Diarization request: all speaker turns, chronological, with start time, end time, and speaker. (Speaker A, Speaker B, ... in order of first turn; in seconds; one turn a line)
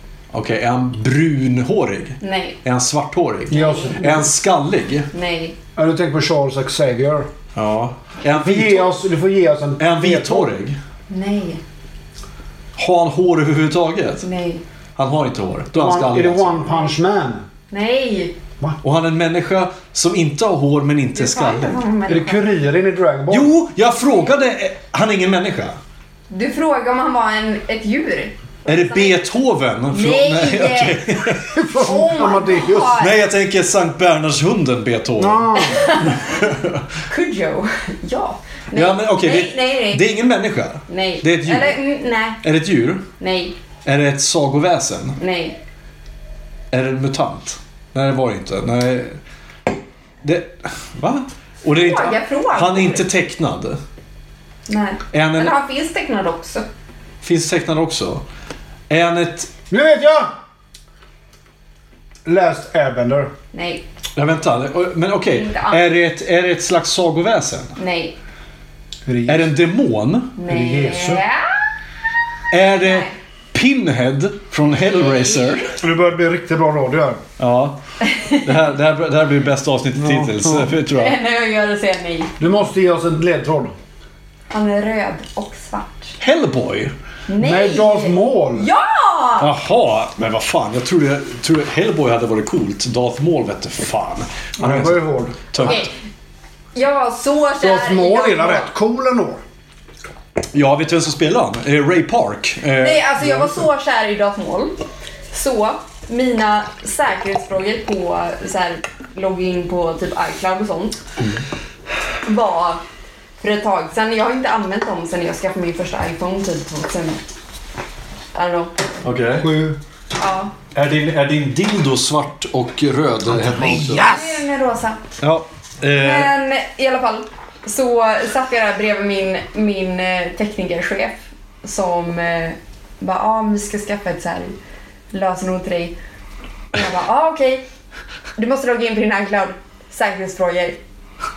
Speaker A: 0.3-5.1
Speaker B: 2.2-2.6
Speaker C: 3.5-4.3
Speaker B: 3.5-4.0
Speaker B: 5.1-5.6
Speaker C: 5.8-7.3
Speaker A: 7.6-9.0
Speaker C: 8.3-10.5
Speaker A: 9.8-10.8
Speaker B: 11.1-11.6
Speaker A: 12.8-14.3
Speaker B: 14.2-14.6
Speaker A: 15.0-16.7
Speaker C: 15.8-17.4
Speaker B: 17.7-18.3
Speaker A: 18.8-21.8
Speaker B: 21.1-22.5
Speaker C: 22.1-23.5
Speaker A: 23.3-25.8
Speaker B: 26.3-29.2
Speaker A: 28.7-31.6
Speaker B: 29.9-33.1
Speaker C: 31.6-33.0
Speaker A: 33.0-36.8
Speaker C: 35.2-35.9
Speaker B: 35.6-36.4
Speaker B: 37.1-40.1
Speaker A: 38.7-41.8
Speaker B: 40.9-42.4
Speaker A: 42.4-43.1
Speaker B: 43.2-43.5
Speaker A: 43.9-45.2
Speaker B: 45.2-45.6
Speaker A: 46.7-49.2
Speaker A: 50.2-53.8
Speaker B: 51.7-53.1
Speaker B: 54.7-56.7
Speaker A: 55.1-55.6
Speaker A: 57.2-58.2
Speaker A: 58.9-59.5
Speaker C: 59.7-60.4
Speaker C: 62.2-63.3
Speaker B: 63.5-63.8
Speaker A: 64.2-67.8
Speaker B: 65.3-65.9
Speaker B: 67.8-68.2
Speaker C: 69.1-69.5
Speaker A: 69.3-70.3
Speaker B: 70.4-71.5
Speaker C: 70.5-71.2
Speaker A: 72.5-75.8
Speaker B: 72.8-73.1
Speaker B: 74.9-75.6
Speaker C: 75.8-77.2
Speaker A: 77.4-77.8
Speaker B: 78.0-78.5
Speaker A: 78.4-81.2
Speaker C: 80.0-80.7
Speaker B: 80.9-82.3
Speaker C: 82.4-83.7
Speaker B: 84.5-86.1
Speaker A: 86.2-86.9
Speaker B: 87.3-89.5
Speaker C: 87.4-88.7
Speaker A: 89.4-95.9
Speaker C: 94.6-95.8
Speaker B: 95.6-95.9
Speaker B: 96.8-98.7
Speaker C: 97.6-99.4
Speaker A: 100.5-103.1
Speaker B: 102.8-104.8
Speaker B: 105.3-111.0
Speaker B: 112.2-112.8
Speaker B: 113.4-117.2
Speaker B: 118.3-118.7
Speaker A: 119.0-119.5
Speaker C: 119.4-119.8
Speaker B: 120.2-120.5
Speaker A: 120.7-124.1
Speaker C: 123.3-124.4
Speaker B: 124.0-125.0
Speaker A: 125.2-126.3
Speaker B: 126.0-134.6
Speaker B: 135.1-136.0
Speaker B: 136.7-137.6
Speaker B: 138.4-140.8